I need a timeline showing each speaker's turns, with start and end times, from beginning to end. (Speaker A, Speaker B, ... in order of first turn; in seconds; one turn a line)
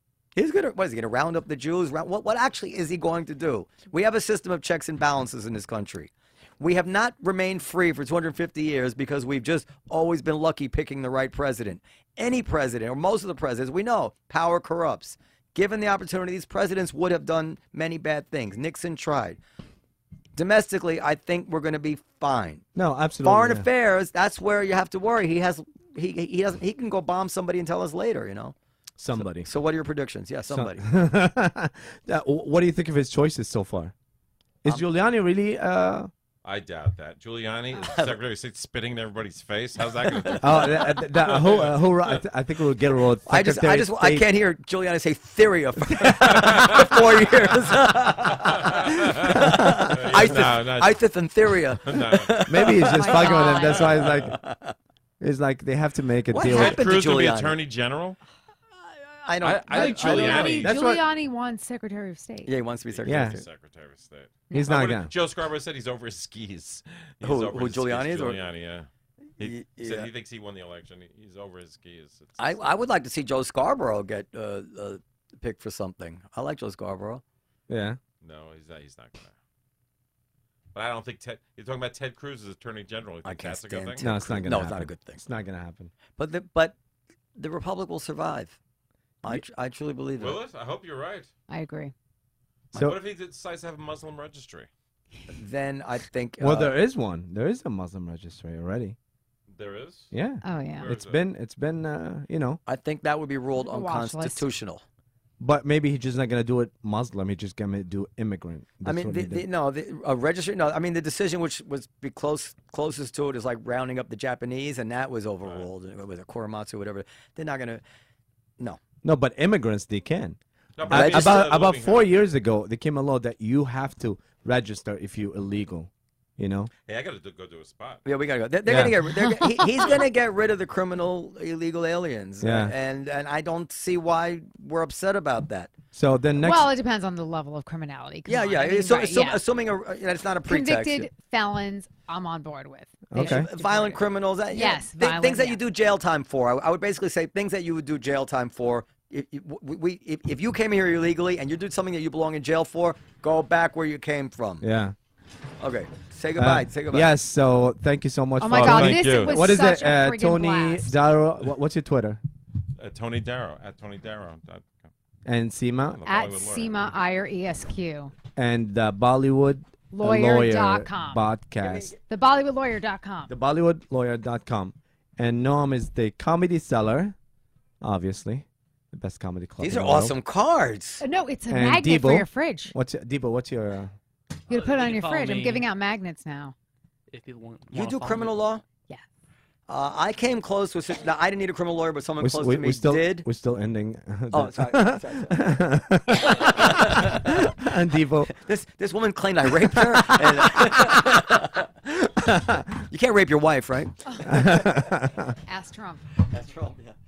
Speaker A: 0.3-19.4
Speaker A: 20.4-22.6
Speaker B: 22.8-23.7
Speaker A: 23.2-28.6
Speaker B: 29.0-29.5
Speaker A: 29.1-30.8
Speaker B: 30.5-33.9
Speaker B: 34.6-36.1
Speaker C: 36.5-40.7
Speaker A: 40.2-40.5
Speaker B: 40.4-44.3
Speaker C: 41.2-42.2
Speaker A: 43.3-54.8
Speaker C: 46.2-47.3
Speaker C: 48.3-51.0
Speaker B: 49.2-50.0
Speaker C: 51.9-52.9
Speaker B: 52.5-54.4
Speaker D: 52.9-53.9
Speaker C: 53.9-54.2
Speaker B: 55.2-56.9
Speaker A: 56.3-57.6
Speaker C: 56.4-58.2
Speaker A: 58.9-60.7
Speaker C: 59.4-60.8
Speaker D: 59.7-62.5
Speaker B: 60.6-61.0
Speaker A: 62.5-63.5
Speaker C: 62.9-72.8
Speaker B: 63.1-63.4
Speaker B: 64.6-65.1
Speaker A: 67.2-68.4
Speaker A: 69.4-70.1
Speaker A: 72.4-77.2
Speaker B: 77.7-78.0
Speaker C: 78.2-79.4
Speaker C: 80.7-84.1
Speaker A: 83.2-85.2
Speaker B: 84.0-85.9
Speaker A: 86.2-86.8
Speaker A: 87.4-88.6
Speaker A: 89.2-90.4
Speaker C: 90.2-91.3
Speaker D: 91.5-91.9
Speaker C: 92.7-94.7
Speaker A: 95.3-96.7
Speaker B: 96.4-99.0
Speaker C: 99.5-100.1
Speaker B: 100.1-102.6
Speaker D: 100.4-100.9
Speaker C: 100.8-101.2
Speaker A: 102.7-104.8
Speaker D: 103.6-104.5
Speaker B: 105.4-109.5
Speaker A: 108.8-117.8
Speaker B: 119.0-126.7
Speaker C: 120.8-122.1
Speaker A: 120.9-121.5
Speaker C: 126.9-128.0
Speaker A: 128.1-135.7
Speaker B: 128.7-129.0
Speaker B: 132.4-132.7
Speaker B: 135.9-136.7
Speaker D: 136.4-139.4
Speaker A: 138.3-141.1
Speaker D: 140.5-145.6
Speaker B: 143.1-143.5
Speaker A: 143.2-154.7
Speaker B: 154.6-154.9
Speaker A: 155.6-157.1
Speaker B: 156.4-162.2
Speaker D: 158.4-161.0
Speaker C: 158.5-159.5
Speaker C: 162.8-164.9
Speaker B: 165.2-166.0
Speaker C: 165.9-166.9
Speaker D: 166.1-168.1
Speaker B: 168.4-171.9
Speaker D: 169.9-171.3
Speaker A: 171.6-172.0
Speaker D: 172.1-173.3
Speaker B: 173.3-177.2
Speaker B: 177.8-180.2
Speaker A: 179.6-181.0
Speaker D: 181.0-182.7
Speaker B: 181.5-183.9
Speaker E: 184.5-185.7
Speaker D: 184.5-186.6
Speaker E: 187.1-188.4
Speaker A: 187.7-188.6
Speaker A: 189.7-193.3
Speaker B: 192.2-198.3
Speaker A: 194.3-195.5
Speaker A: 196.2-197.5
Speaker A: 198.3-201.7
Speaker B: 199.7-201.2
Speaker B: 201.9-202.8
Speaker A: 202.9-204.6
Speaker B: 204.2-205.3
Speaker D: 205.5-206.1
Speaker A: 206.2-206.9